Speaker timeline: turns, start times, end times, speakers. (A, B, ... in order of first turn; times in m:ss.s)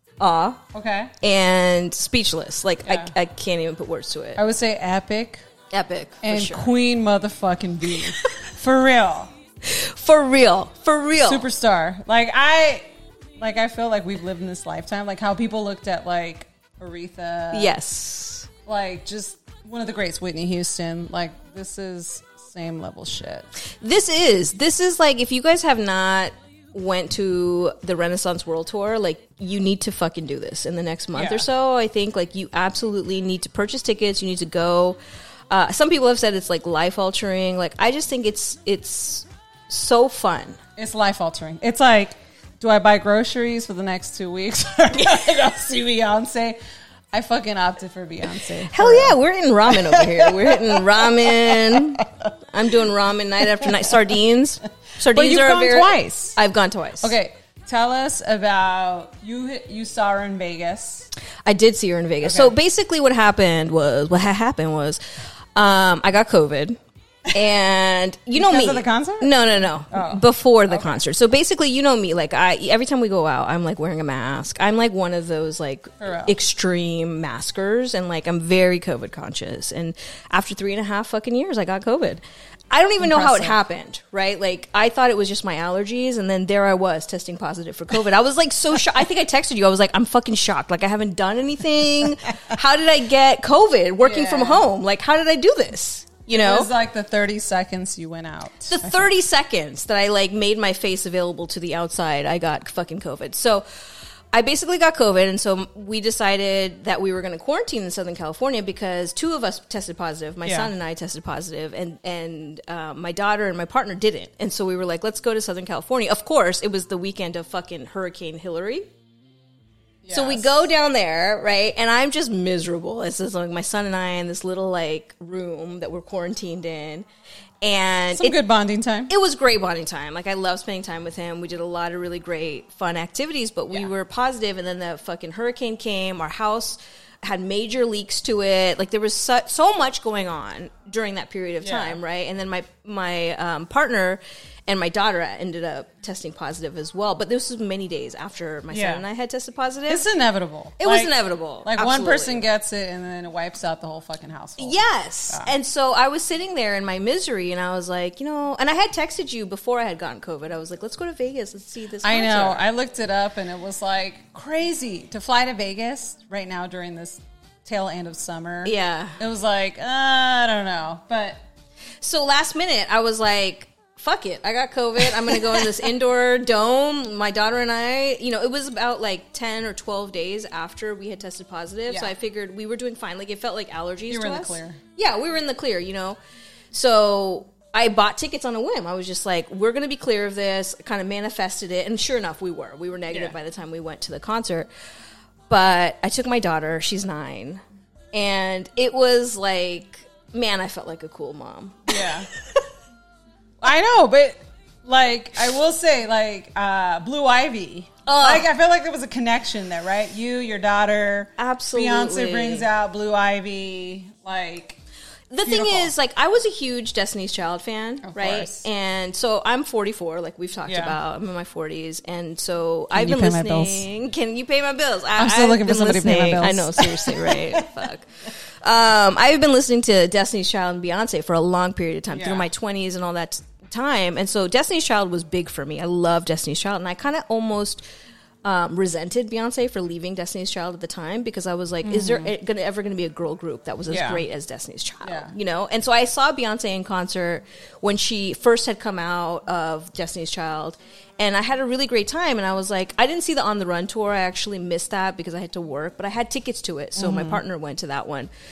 0:00.2-0:00.6 A
0:00.7-0:01.1 B
0:01.2-0:04.4 A
0:02.8-0:03.1 B
0:04.4-0:05.4 B
0:05.7-0:06.7 A
0:06.2-0:09.3 B
0:09.6-0:11.4 A
0:11.2-0:17.8 B
0:17.5-0:18.5 A
0:18.6-0:23.5 B
0:23.8-0:35.0 A
0:31.1-0:31.5 B
0:35.5-0:40.6 A
0:40.8-0:46.6 B
0:47.1-0:52.1 B
0:48.6-0:57.1 A
0:53.6-0:53.9 B
0:55.0-0:56.4 B
0:57.0-1:01.1 B
1:01.4-1:05.0 A
1:02.2-1:02.5 B
1:05.5-1:06.8 A
1:07.3-1:36.7 A
1:08.3-1:11.0 B
1:16.0-1:16.4 B
1:23.0-1:23.6 B
1:34.0-1:34.7 B
1:36.3-1:39.1 B
1:38.7-1:43.6 A
1:44.3-1:58.9 A
1:50.4-1:50.7 B
2:00.0-2:00.6 B
2:00.1-2:07.1 A
2:07.6-2:08.4 A
2:08.1-2:09.1 B
2:09.1-2:30.0 A
2:21.6-2:22.0 B
2:28.7-2:29.0 B
2:29.9-2:35.5 B
2:30.8-2:32.4 A
2:34.6-2:42.6 A
2:42.0-2:51.4 B
2:48.6-2:49.2 A
2:52.0-3:06.2 A
2:55.1-2:55.8 B
3:04.1-3:04.8 B
3:06.7-3:14.7 A
3:15.5-3:17.6 A
3:18.1-3:22.6 A
3:21.9-3:22.3 B
3:23.6-3:34.8 B
3:28.0-3:28.5 A
3:31.4-3:32.7 A
3:35.3-3:57.8 A
3:35.4-3:35.9 B
3:38.0-3:38.6 B
3:40.6-3:41.0 B
3:42.9-3:43.9 B
3:45.2-3:47.7 B
3:52.1-3:52.5 B
3:58.4-4:18.3 A
4:01.8-4:02.3 B
4:03.9-4:04.2 B
4:05.0-4:05.3 B
4:16.9-4:17.4 B